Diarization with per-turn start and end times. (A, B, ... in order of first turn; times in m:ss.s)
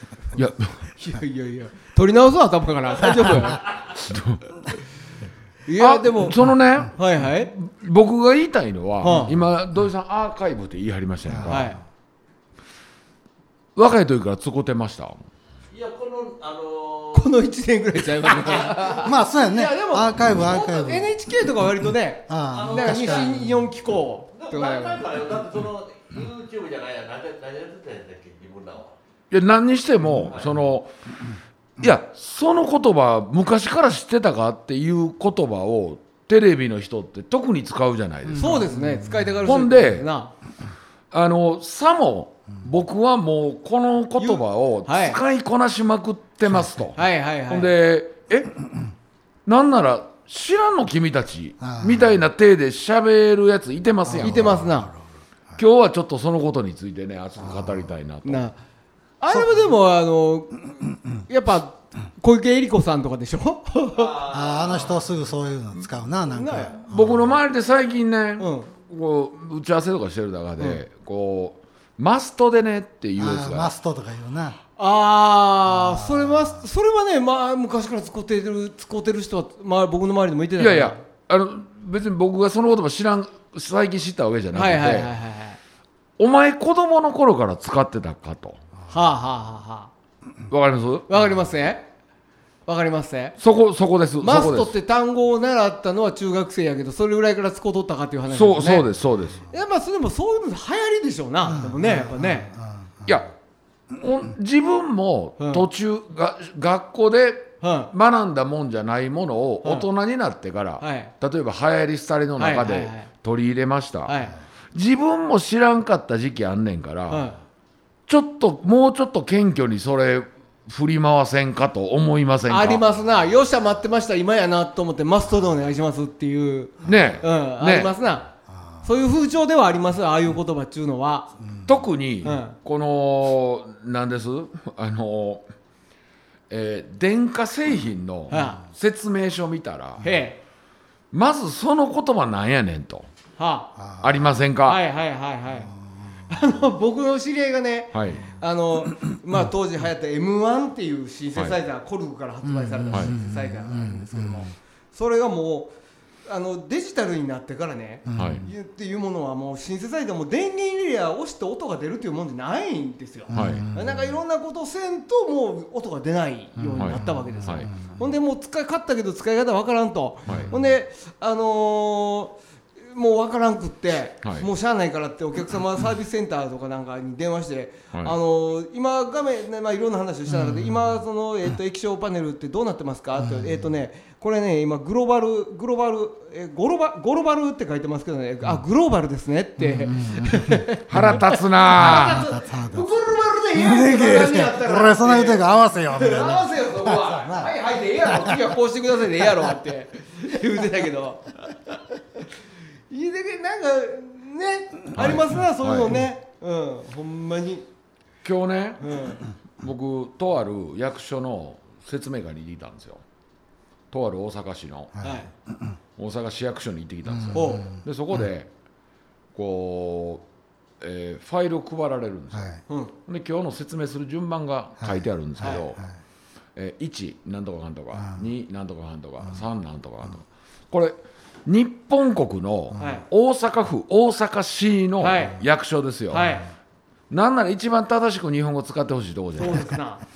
0:00.4-0:00.9 A
0:00.9-0:03.6 B
0:03.1-0:04.0 C
0:04.0-0:04.6 A
0:05.7-0:06.4 B
0:05.8-0:11.7 A
0:06.9-0:07.5 B
0:09.0-0:09.4 B
0:11.3-0:11.7 D
0:11.5-0:11.8 B
0:13.8-0:15.2 A
0:15.7-0:17.3 C
0:17.1-0:25.1 B
0:18.3-0:19.2 C
0:19.0-0:21.2 D
0:22.3-0:23.6 D
0:22.5-0:23.4 C
0:24.3-0:29.0 C
0:29.3-0:30.9 A
0:30.3-0:30.5 C
0:31.8-0:38.7 A
0:38.3-0:39.4 D
0:38.4-0:40.3 B
0:39.4-0:40.1 A
0:41.1-0:48.6 A
0:44.2-0:45.2 B
0:47.0-0:47.7 B
0:49.5-0:54.6 A
0:51.6-0:52.2 D
0:54.0-0:55.6 D
0:54.1-0:54.9 B
0:55.6-0:58.4 A
0:58.2-0:58.6 B
0:59.2-1:04.2 B
1:03.9-1:05.2 C
1:04.3-1:07.4 D
1:06.3-1:06.8 B
1:06.9-1:13.7 A
1:08.4-1:08.7 B
1:13.2-1:14.6 D
1:14.8-1:21.0 B
1:15.7-1:16.6 D
1:20.6-1:25.1 A
1:24.5-1:25.6 B
1:26.2-1:28.6 A
1:28.9-1:29.9 B
1:30.5-1:31.1 A
1:31.1-1:31.9 B
1:32.7-1:33.4 B
1:33.4-1:34.8 A
1:34.2-1:38.9 B
1:38.3-1:39.5 A
1:39.5-1:42.5 B
1:41.5-1:43.2 D
1:43.9-1:54.2 A
1:45.4-1:45.7 B
1:47.6-1:47.9 B
1:50.8-1:51.1 B
1:52.4-1:53.1 B
1:54.1-1:54.4 B
1:54.7-1:57.3 A
1:57.1-1:57.4 B
1:58.1-2:02.8 A
2:02.5-2:08.3 B
2:06.8-2:07.9 A
2:08.5-2:08.9 D
2:08.8-2:11.3 B
2:11.4-2:11.8 D
2:11.7-2:15.4 A
2:12.2-2:12.6 B
2:16.5-2:20.1 A
2:18.3-2:18.6 B
2:20.0-2:20.4 B
2:21.1-2:23.1 A
2:23.4-2:23.7 B
2:23.8-2:24.3 D
2:24.0-2:24.8 A
2:24.6-2:25.7 B
2:25.8-2:26.4 D
2:26.3-2:35.7 B
2:27.9-2:28.3 A
2:32.4-2:34.4 D
2:36.3-3:22.2 B
2:38.1-2:38.5 D
2:38.2-2:38.5 A
2:43.3-2:44.2 D
2:43.3-2:43.7 A
2:46.6-2:47.7 A
2:46.8-2:48.1 D
2:50.3-2:50.5 A
2:50.3-2:50.7 D
2:54.2-2:54.5 A
3:00.4-3:00.8 D
3:03.2-3:03.6 D
3:09.6-3:11.2 D
3:10.9-3:12.2 A
3:11.7-3:12.9 D
3:13.6-3:18.4 D
3:22.9-3:27.6 B
3:25.0-3:26.0 A
3:28.2-3:33.0 A
3:28.8-3:29.2 B
3:33.9-3:35.0 A
3:35.0-3:35.7 D
3:35.0-3:35.3 B
3:36.0-3:38.5 A
3:37.2-3:37.6 D
3:37.3-3:37.7 B
3:39.3-3:40.2 A
3:40.8-3:45.8 A
3:42.3-3:42.6 D
3:42.7-3:42.9 B
3:44.8-3:45.8 D
3:46.6-3:56.4 A
3:48.0-3:48.2 D
3:52.8-3:53.0 B
3:55.0-3:55.4 B
3:56.1-3:56.5 B
3:57.1-3:59.8 A
3:59.4-4:00.0 B